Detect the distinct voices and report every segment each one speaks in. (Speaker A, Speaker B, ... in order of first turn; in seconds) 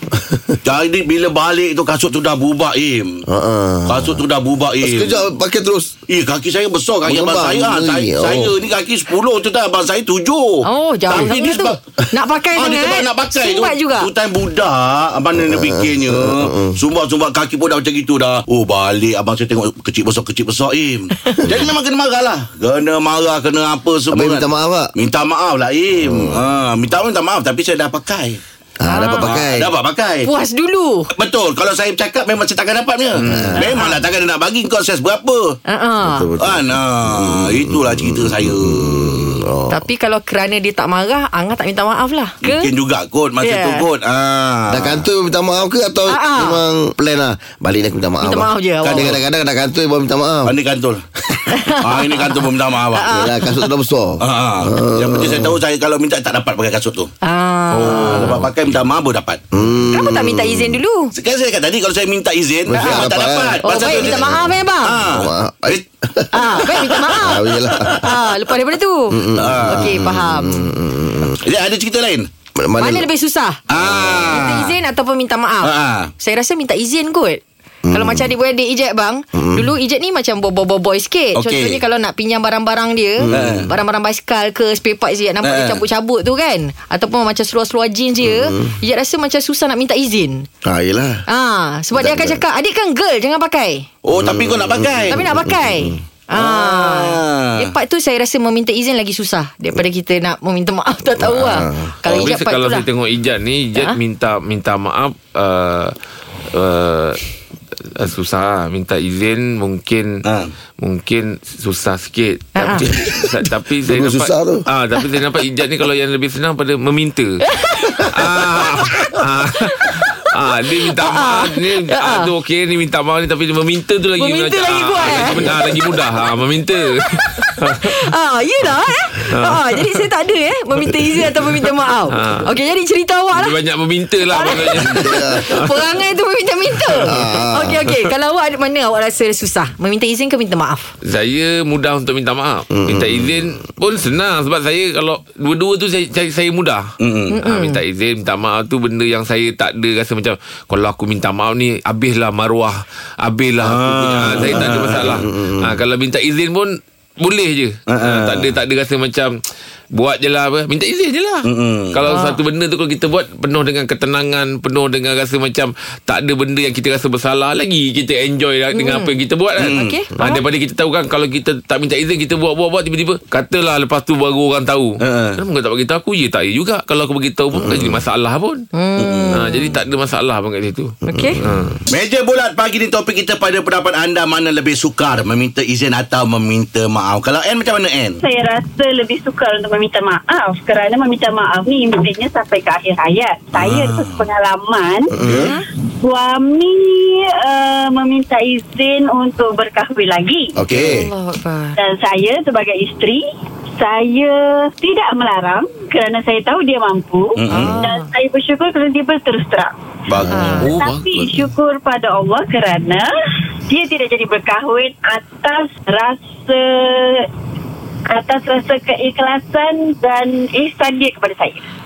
Speaker A: 0.2-0.6, 3.3-4.2, 4.8-6.0, 7.0-8.5, 15.4-16.8, 24.1-24.9, 26.0-26.4, 28.8-29.7, 33.2-33.6, 36.0-39.8, 44.7-50.5, 53.1-55.6, 57.8-58.4, 59.5-60.8, 62.7-64.5, 65.0-68.2, 69.1-71.4, 72.6-73.0, 73.8-74.3, 77.8-78.3, 79.3-79.7, 83.2-83.7, 88.2-88.8, 90.6-91.2, 91.9-92.4, 94.2-96.0, 101.2-101.9, 112.9-113.3, 113.9-114.6, 125.2-125.5, 134.8-135.6, 137.0-137.9, 142.7-143.4, 154.5-155.8, 177.6-178.0, 181.1-181.4, 195.2-195.5, 200.6-201.1, 210.1-210.6
Speaker B: 0.6-3.2, 3.9-5.2, 6.1-11.8, 12.5-24.4, 24.9-28.4, 29.1-30.3, 31.1-35.6, 36.4-39.4, 42.4-45.0, 48.8-49.2, 50.5-53.1, 54.2-57.1, 57.7-59.4, 61.1-65.8, 69.3-69.8, 71.4-72.3, 73.7-74.7, 75.6-76.1, 81.3-81.8, 83.3-83.7, 85.4-85.8, 94.0-95.2, 96.3-97.7, 110.2-110.5, 147.0-147.4, 153.6-155.2, 157.9-158.5, 161.4-162.0, 169.6-169.9, 175.0-175.4, 179.0-179.4, 181.9-188.2, 193.5-194.3, 195.2-195.6, 200.7-201.0, 207.3-207.8, 210.1-210.7
Speaker C: 10.6-14.1, 28.9-29.2, 30.2-31.1, 33.6-34.0, 35.7-36.3, 39.7-42.7, 43.4-43.9, 46.1-46.6, 48.2-49.1, 51.5-53.4, 57.2-58.4, 59.9-61.1, 63.6-65.0, 66.3-70.7, 72.8-73.6, 74.3-90.5, 91.3-93.8, 95.1-102.9, 112.5-112.8, 117.5-117.9, 121.0-122.3, 124.2-125.8, 127.2-133.6, 134.3-140.9, 147.3-147.8, 162.1-162.4, 168.7-169.1, 169.7-170.4, 178.7-179.7, 181.1-181.4, 195.3-195.6, 200.8-201.8, 207.5-208.1, 210.3-210.7
Speaker D: 102.0-105.9, 106.5-107.2, 108.0-110.2, 110.8-117.4, 118.1-127.9, 129.3-130.0, 132.1-132.5, 133.3-135.7, 141.0-146.9, 147.4-159.3, 159.9-178.6, 179.3-181.8, 210.6-211.5
Speaker E: 188.2-195.1, 196.0-200.6, 201.8-203.2, 203.8-209.7, 210.7-213.1, 213.7-217.3, 218.1-221.6